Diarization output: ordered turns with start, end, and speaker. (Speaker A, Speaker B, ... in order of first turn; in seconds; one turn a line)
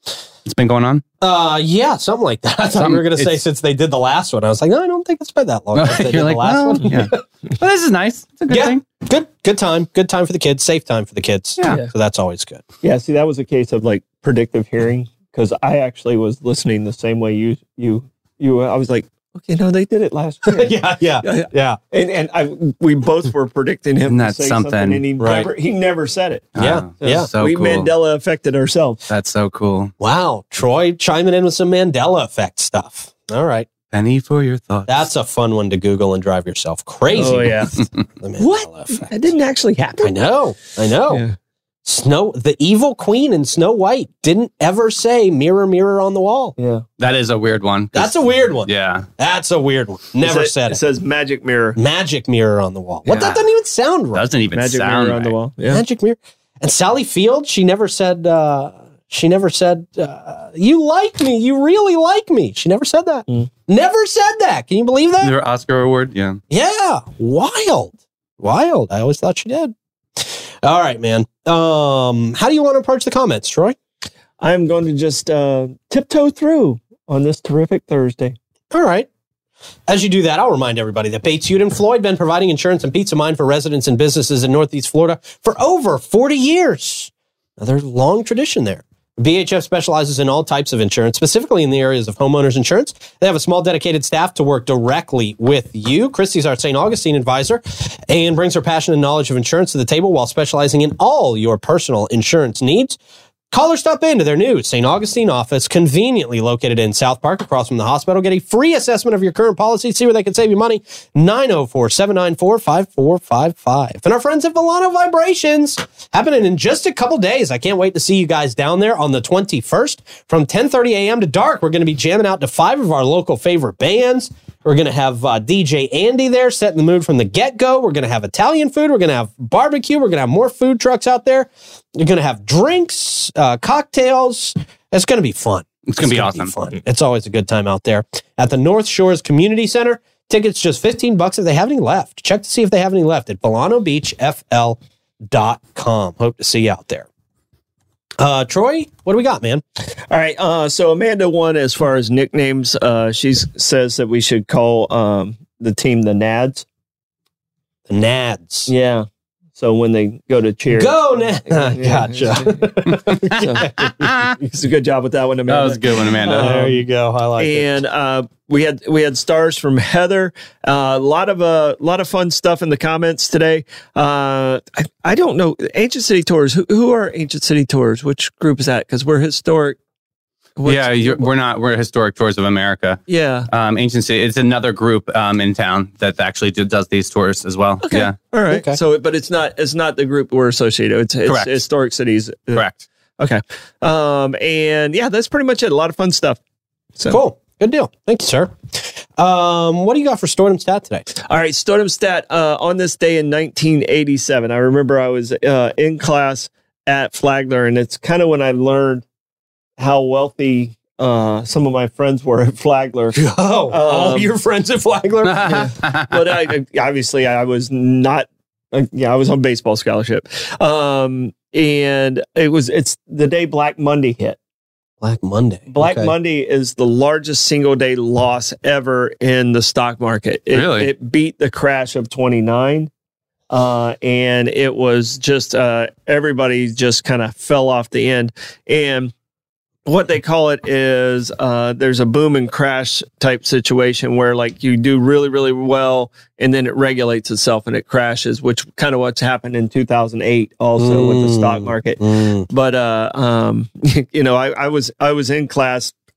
Speaker A: 0.4-1.0
Speaker B: 1.2-7.2
Speaker A: 2.8-3.4
Speaker A: 5.8-8.8
Speaker B: 8.5-12.6
Speaker C: 12.8-29.0
Speaker B: 20.5-21.8
Speaker A: 24.1-25.1
Speaker B: 25.2-25.5
Speaker A: 26.6-27.9
Speaker B: 26.6-27.3
Speaker A: 29.1-29.9
Speaker B: 30.0-33.7
Speaker A: 33.9-35.1
Speaker B: 34.9-39.2
Speaker C: 37.1-37.9
Speaker C: 38.4-40.1
Speaker B: 40.0-41.2
Speaker C: 41.1-41.4
Speaker B: 41.9-46.5
Speaker C: 46.6-46.9
Speaker A: 47.0-49.1
Speaker B: 47.9-50.8
Speaker C: 50.2-51.8
Speaker B: 51.8-54.2
Speaker C: 53.1-53.4
Speaker A: 54.1-55.3
Speaker C: 54.5-55.8
Speaker B: 55.7-65.3
Speaker A: 65.2-66.4
Speaker B: 66.5-73.8
Speaker C: 74.4-78.4
Speaker B: 78.7-79.1
Speaker B: 79.9-103.0
Speaker B: 103.5-147.1
Speaker A: 135.9-136.5
Speaker B: 148.2-149.6
Speaker C: 150.1-156.7
Speaker B: 157.9-158.7
Speaker C: 158.7-162.7
Speaker B: 160.7-163.9
Speaker C: 163.3-166.8
Speaker A: 163.8-164.4
Speaker A: 165.5-166.6
Speaker B: 166.2-167.7
Speaker C: 167.4-179.8
Speaker C: 180.6-181.3
Speaker A: 180.7-188.2
Speaker C: 183.1-183.5
Speaker C: 187.8-192.7
Speaker B: 188.5-188.8
Speaker A: 191.3-191.5
Speaker A: 192.6-192.8
Speaker C: 193.2-196.4
Speaker B: 197.1-201.1
Speaker C: 201.1-209.0
Speaker C: 209.8-214.3
Speaker B: 213.2-215.7
Speaker A: 215.3-216.1
Speaker C: 215.4-224.4
Speaker B: 225.0-226.1
Speaker C: 225.7-232.9
Speaker A: 230.5-230.9
Speaker C: 233.5-239.1
Speaker C: 239.9-255.9
Speaker B: 250.8-252.5